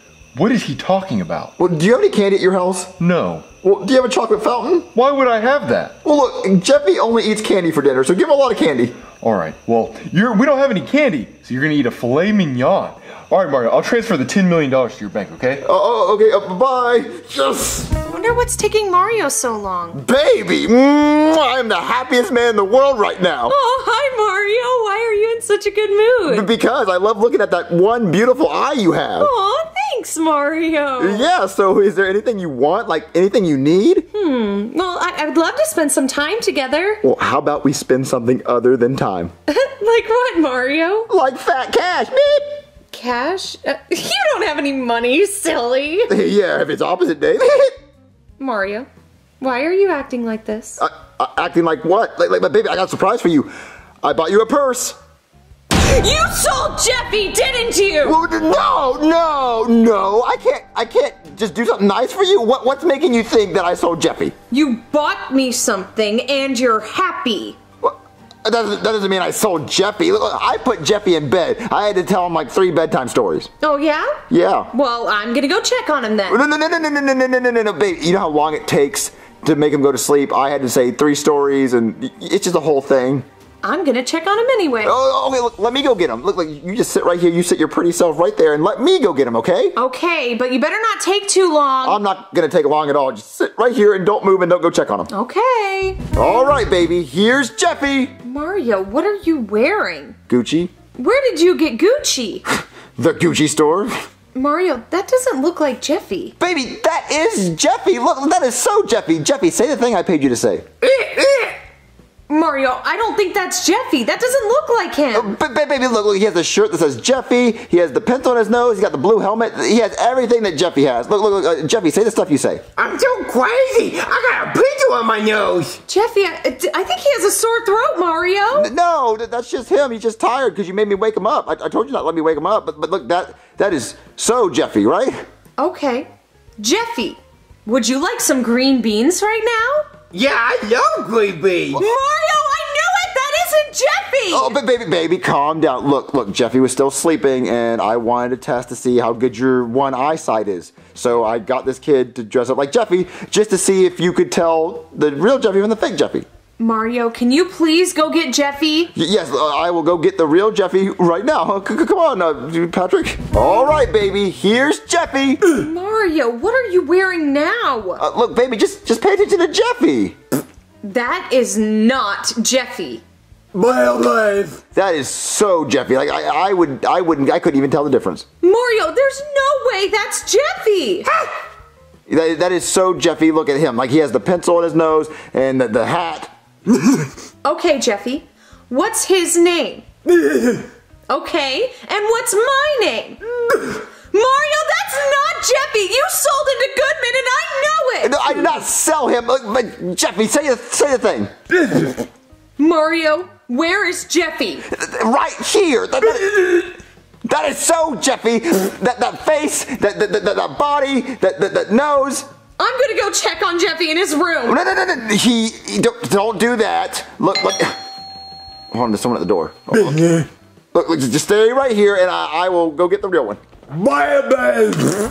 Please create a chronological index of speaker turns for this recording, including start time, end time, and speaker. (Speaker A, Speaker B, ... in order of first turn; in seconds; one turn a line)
Speaker A: 0.3-1.5
Speaker B: 1.6-3.0
Speaker A: 3.0-3.5
Speaker B: 3.6-4.9
Speaker A: 4.9-6.0
Speaker B: 6.0-9.0
Speaker A: 9.1-15.6
Speaker B: 15.6-17.9
Speaker C: 18.0-20.0
Speaker B: 19.9-23.5
Speaker C: 23.5-26.5
Speaker B: 26.2-29.3
Speaker C: 29.2-31.3
Speaker B: 31.0-34.1
Speaker C: 34.1-37.0
Speaker B: 37.0-39.3
Speaker C: 39.5-41.1
Speaker B: 41.1-42.5
Speaker C: 42.9-46.1
Speaker B: 46.1-47.8
Speaker C: 48.4-48.9
Speaker C: 49.4-50.8
Speaker B: 50.8-55.0
Speaker C: 55.8-58.2
Speaker B: 58.0-64.3
Speaker C: 64.5-67.6
Speaker B: 67.8-73.5
Speaker C: 73.6-74.2
Speaker B: 74.3-74.7
Speaker C: 74.7-76.4
Speaker B: 76.3-83.2
Speaker C: 83.6-85.0
Speaker B: 84.8-89.8
Speaker C: 89.8-92.0
Speaker B: 91.8-95.1
Speaker C: 95.1-96.2
Speaker B: 96.1-98.2
Speaker C: 98.2-100.2
Speaker B: 100.3-100.7
Speaker C: 101.0-102.5
Speaker B: 103.0-103.9
Speaker C: 104.3-106.3
Speaker B: 106.4-110.7
Speaker D: 110.8-111.5
Speaker C: 112.3-115.3
Speaker B: 115.1-122.6
Speaker D: 122.8-125.8
Speaker C: 125.9-128.7
Speaker B: 128.5-135.2
Speaker C: 135.6-139.9
Speaker D: 140.1-141.8
Speaker C: 141.7-144.6
Speaker B: 144.3-156.3
Speaker C: 156.6-158.9
Speaker B: 158.9-165.4
Speaker C: 165.4-168.0
Speaker B: 168.0-170.2
Speaker C: 170.8-173.0
Speaker D: 173.5-174.6
Speaker B: 174.7-178.2
Speaker C: 178.4-181.1
Speaker B: 182.1-187.0
Speaker C: 187.4-189.8
Speaker C: 191.1-193.2
Speaker C: 194.1-198.5
Speaker B: 198.0-201.3
Speaker C: 202.6-204.7
Speaker B: 204.7-212.2
Speaker C: 212.6-214.6
Speaker B: 214.4-217.8
Speaker B: 218.7-223.4
Speaker A: 223.7-224.5